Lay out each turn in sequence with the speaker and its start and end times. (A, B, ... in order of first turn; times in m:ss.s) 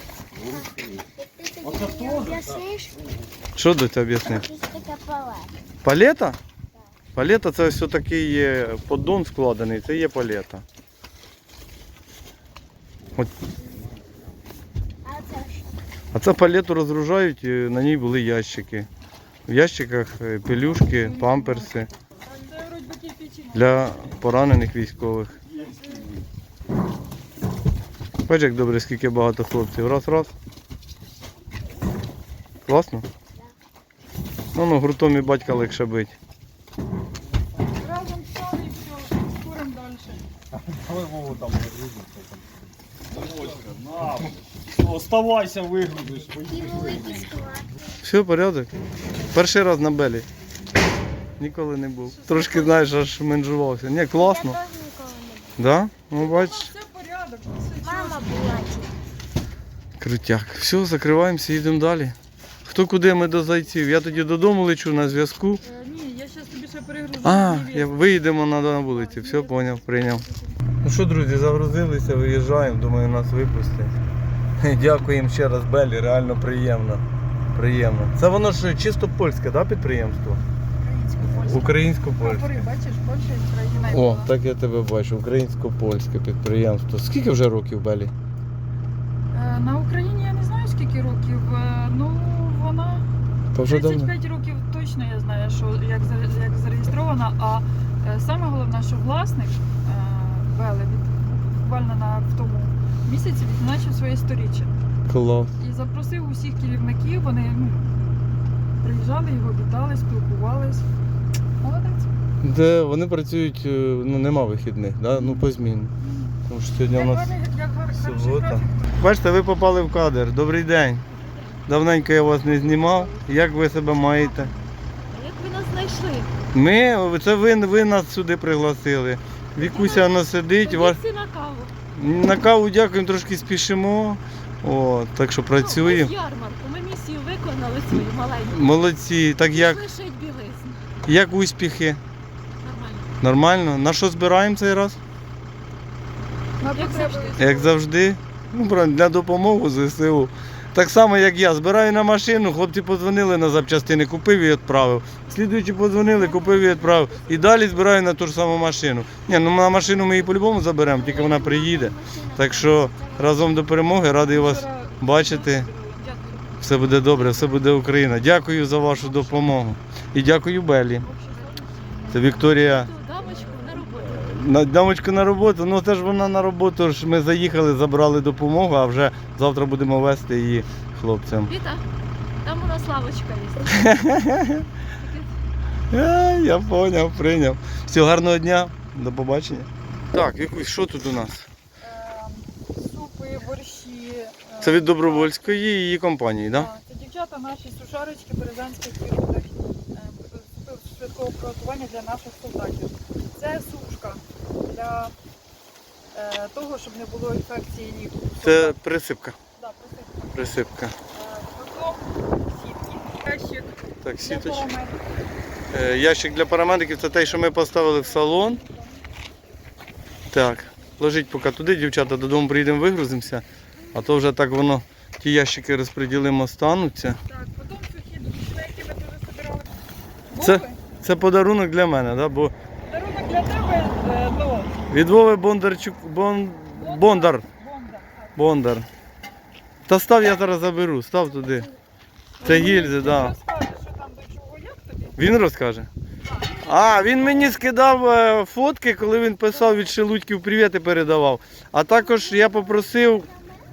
0:00.4-0:01.0 A
0:00.4-0:02.9 B
0:01.6-0:02.5 A
0:03.5-0:04.5 C
0:04.2-0:05.5 B
0:05.8-0:06.4 C
0:07.1-0:10.6 C
0:15.0-0:15.7 B
0:16.1-0:18.9 C
0:19.5-0:21.9 C
0:20.9-0:23.8 D
0:23.5-0:25.3 C
0:25.5-0:26.1 A
0:28.3-0:30.3 C
0:32.7-0:33.0 C
0:34.5-0:36.1 C
0:37.7-0:40.2 D
0:40.7-0:42.3 A
0:43.1-0:47.3 A
0:46.4-0:47.7 B
0:48.0-0:48.7 C
0:49.3-0:50.3 C
0:51.4-0:54.6 C
0:52.1-0:53.0 D
0:54.2-0:55.6 B
0:55.6-0:56.7 C
0:56.1-0:58.3 D
0:57.8-0:58.9 B
1:00.0-1:05.6 C
1:05.6-1:08.1 D
1:07.2-1:10.2 C
1:08.9-1:09.5 D
1:10.8-1:13.9 C
1:14.6-1:17.0 C
1:17.5-1:20.4 C
1:20.8-1:24.3 D
1:21.3-1:22.7 C
1:23.9-1:28.1 C
1:29.3-1:33.0 D
1:33.5-1:34.1 C
1:33.6-1:44.8 D
1:45.1-1:45.5 C
1:45.6-1:48.2 D
1:48.8-1:50.8 D
1:51.6-1:52.1 D
1:52.4-1:55.9 C
1:56.0-1:56.3 D
1:56.5-1:57.3 C
1:56.9-1:59.0 D
1:57.9-2:01.0 C
2:01.1-2:01.6 E
2:01.7-2:04.5 C
2:02.4-2:04.7 D
2:05.1-2:06.3 E
2:06.5-2:11.0 C
2:09.6-2:11.7 E
2:11.9-2:16.1 C
2:15.5-2:18.7 E
2:18.5-2:19.8 C
2:19.4-2:20.8 E
2:21.0-2:22.0 C
2:22.6-2:23.1 E
2:23.2-2:25.0 C
2:26.6-2:27.5 D
2:26.7-2:27.7 E
2:27.4-2:45.7 C
2:36.0-2:37.8 D
2:40.9-2:43.4 B
2:44.3-2:47.6 D
2:46.6-2:51.1 C
2:48.9-2:49.5 D
2:51.0-2:52.5 D
2:52.1-2:52.9 C
2:52.4-2:54.5 E
2:53.2-2:54.0 D
2:54.1-3:01.5 C
3:01.4-3:01.8 E
3:02.4-3:03.9 E
3:03.7-3:04.6 C
3:05.0-3:05.3 E
3:05.9-3:11.5 C
3:11.8-3:15.6 D
3:14.6-3:16.7 C
3:16.5-3:25.1 D
3:26.1-3:28.8 D
3:28.4-3:29.4 C
3:29.6-3:30.4 D
3:30.3-3:30.9 C
3:31.1-3:35.0 D
3:34.0-3:34.7 C
3:35.7-3:38.6 C
3:37.4-3:39.0 D
3:40.3-3:47.2 C
3:47.3-3:49.7 D
3:50.3-3:50.8 D
3:50.4-3:52.5 C
3:52.8-3:54.7 D
3:54.9-3:57.4 C
3:56.8-3:58.3 D
3:58.4-3:58.9 C
3:59.9-4:01.7 C
4:02.4-4:05.3 D
4:02.4-4:03.3 C
4:05.2-4:05.9 C
4:06.3-4:06.7 D
4:06.6-4:13.3 C
4:13.1-4:13.6 B